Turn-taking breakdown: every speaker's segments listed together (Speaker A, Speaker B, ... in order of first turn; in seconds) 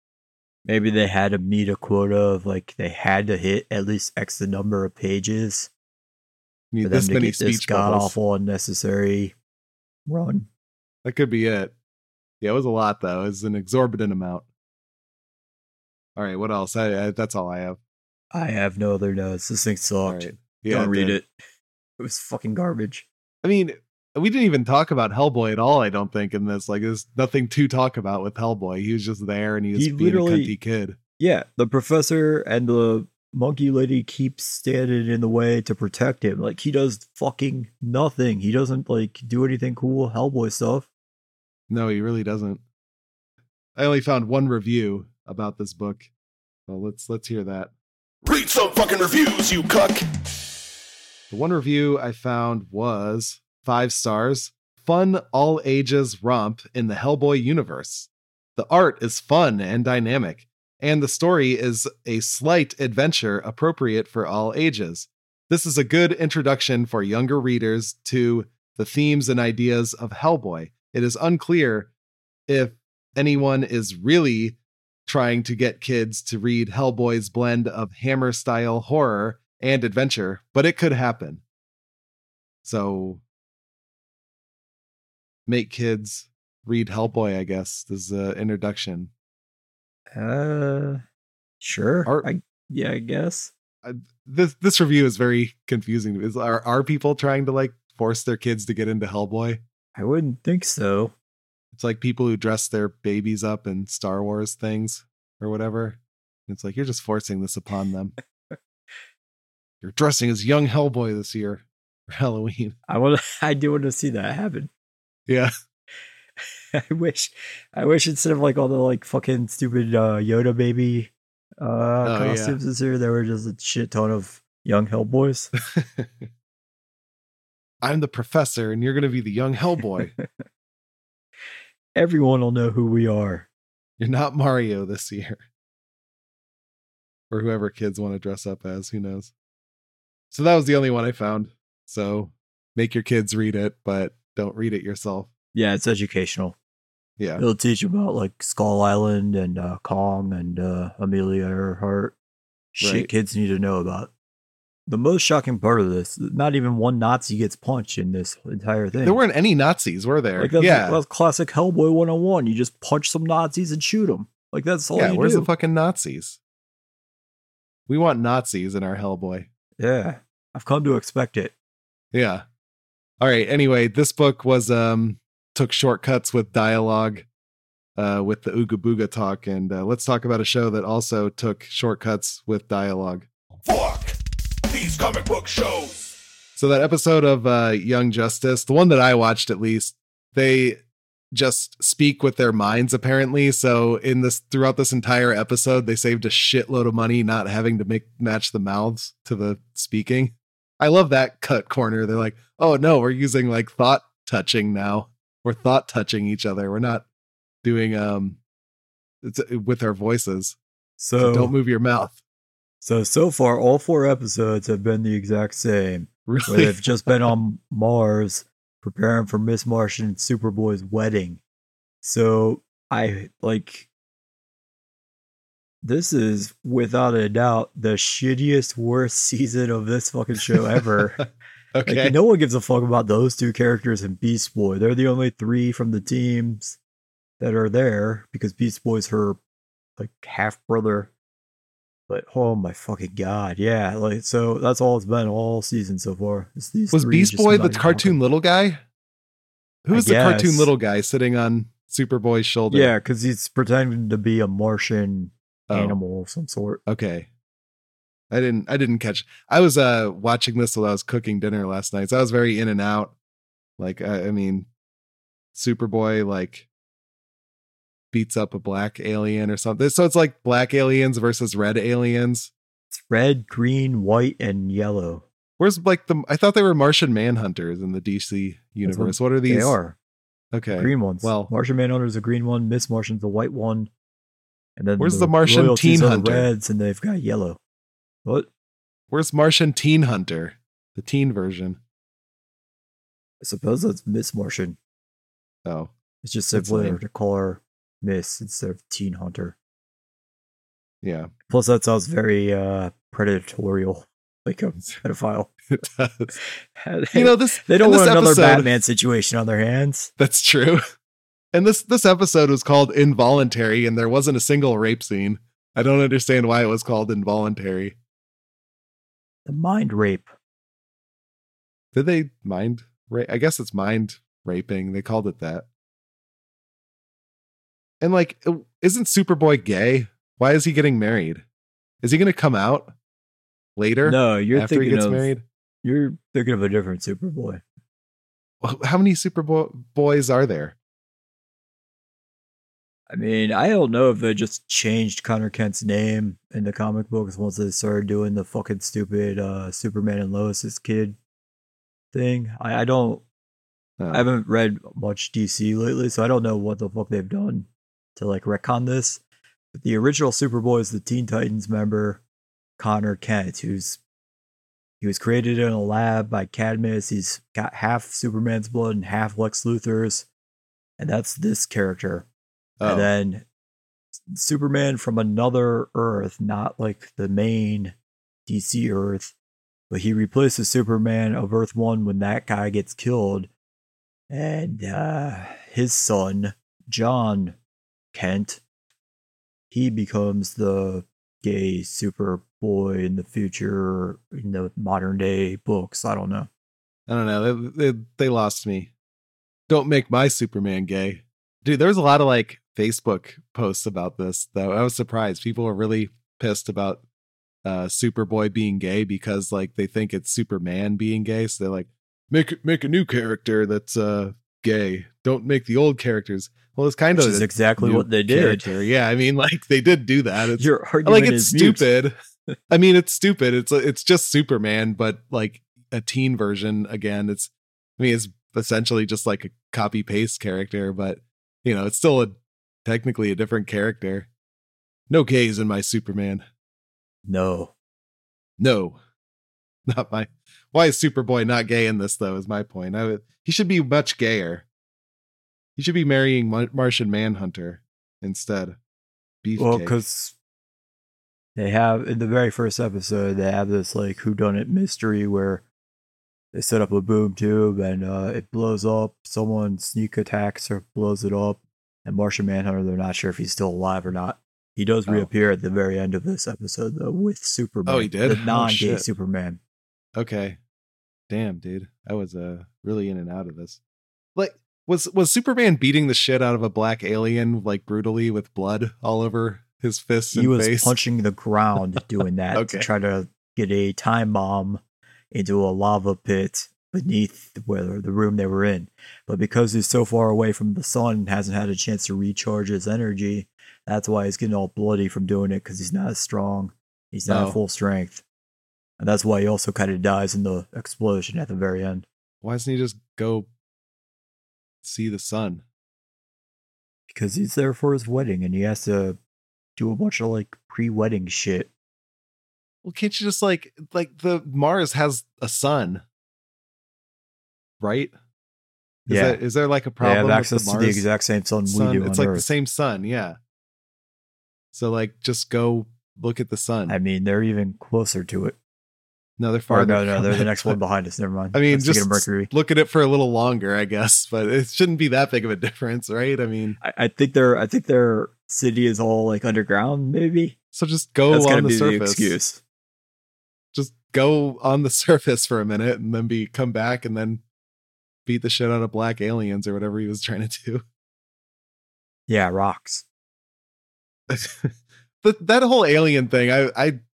Speaker A: 0.7-5.7, 6.8-9.3, 10.1-10.5, 18.3-21.3, 22.0-23.1, 29.7-30.5, 31.2-40.9, 90.1-91.0, 91.6-93.5, 99.9-101.1, 112.9-114.7, 116.4-125.5, 131.9-133.5, 145.5-146.6, 147.4-152.2, 152.7-154.1, 154.9-159.2, 160.4-165.5, 169.8-171.5, 211.0-211.5, 212.8-221.4, 222.0-223.9, 225.8-231.2, 231.8-236.8, 237.4-239.4, 240.0-241.1, 242.1-248.2, 249.9-250.7, 252.7-256.8, 272.9-275.2, 278.8-280.0, 280.7-283.9, 284.8-287.6, 293.4-294.8, 296.2-299.6, 301.5-305.5, 306.3-310.1, 319.4-320.3, 334.0-335.3, 335.8-337.6, 343.1-351.2, 352.1-353.2, 354.1-359.2, 359.7-362.2, 362.8-364.0, 365.0-370.3, 371.0-372.3, 372.8-373.4, 374.3-377.9, 378.4-379.3, 379.9-383.5, 384.3-387.6, 388.1-388.6, 389.7-396.5, 417.1-418.7, 420.6-421.9, 437.2-437.7, 449.6-450.4, 451.6-455.6, 456.5-469.6, 480.3-484.8, 485.3-498.2, 499.0-502.1, 507.1-509.2, 509.8-511.7, 519.1-519.4, 520.0-522.5, 526.9-528.5, 529.7-532.5, 536.8-540.5, 541.3-542.6, 552.3-553.0
Speaker B: 6.7-8.2, 11.0-11.7, 12.4-14.4, 16.1-17.8, 20.1-21.2, 23.4-31.0, 41.7-42.6, 43.8-46.1, 46.7-47.7, 51.3-71.9, 72.5-81.4, 82.6-83.2, 85.5-89.1, 93.8-99.6, 101.7-108.1, 109.8-112.8, 122.0-122.6, 125.7-126.3, 127.8-130.1, 134.0-135.4, 137.3-139.3, 140.3-145.3, 152.8-153.1, 159.0-161.0, 164.9-166.4, 167.9-169.5, 172.1-172.4, 173.2-177.2, 177.9-183.2, 186.6-207.0, 207.6-208.4, 209.2-210.6, 211.2-212.2, 216.3-217.3, 230.5-232.2, 246.9-248.8, 249.8-252.9, 255.7-256.0, 256.9-257.3, 258.3-263.1, 263.8-264.7, 265.5-266.7, 268.1-272.5, 275.6-279.8, 280.5-281.5, 285.0-286.5, 289.1-291.8, 295.6-295.9, 296.5-297.0, 301.0-301.3, 305.7-306.3, 307.1-308.7, 310.2-310.8, 311.5-317.9, 321.9-325.6, 328.0-331.4, 332.0-332.9, 333.8-335.4, 338.6-340.8, 354.0-354.3, 372.8-373.1, 397.1-398.9, 399.7-407.0, 407.6-422.1, 422.7-434.3, 435.1-436.4, 438.6-439.0, 439.9-444.6, 445.8-448.8, 449.4-450.0, 467.9-469.1, 470.1-470.6, 471.3-473.8, 474.4-481.0, 482.5-482.9, 497.3-497.6, 502.4-503.5, 504.8-505.6, 512.8-516.0, 517.8-518.1, 519.1-521.0, 521.6-523.4, 524.7-527.0, 529.4-530.8, 531.5-536.8, 540.7-542.4, 543.7-547.4, 548.2-550.8, 554.3-557.0
Speaker C: 48.2-50.0, 183.6-186.1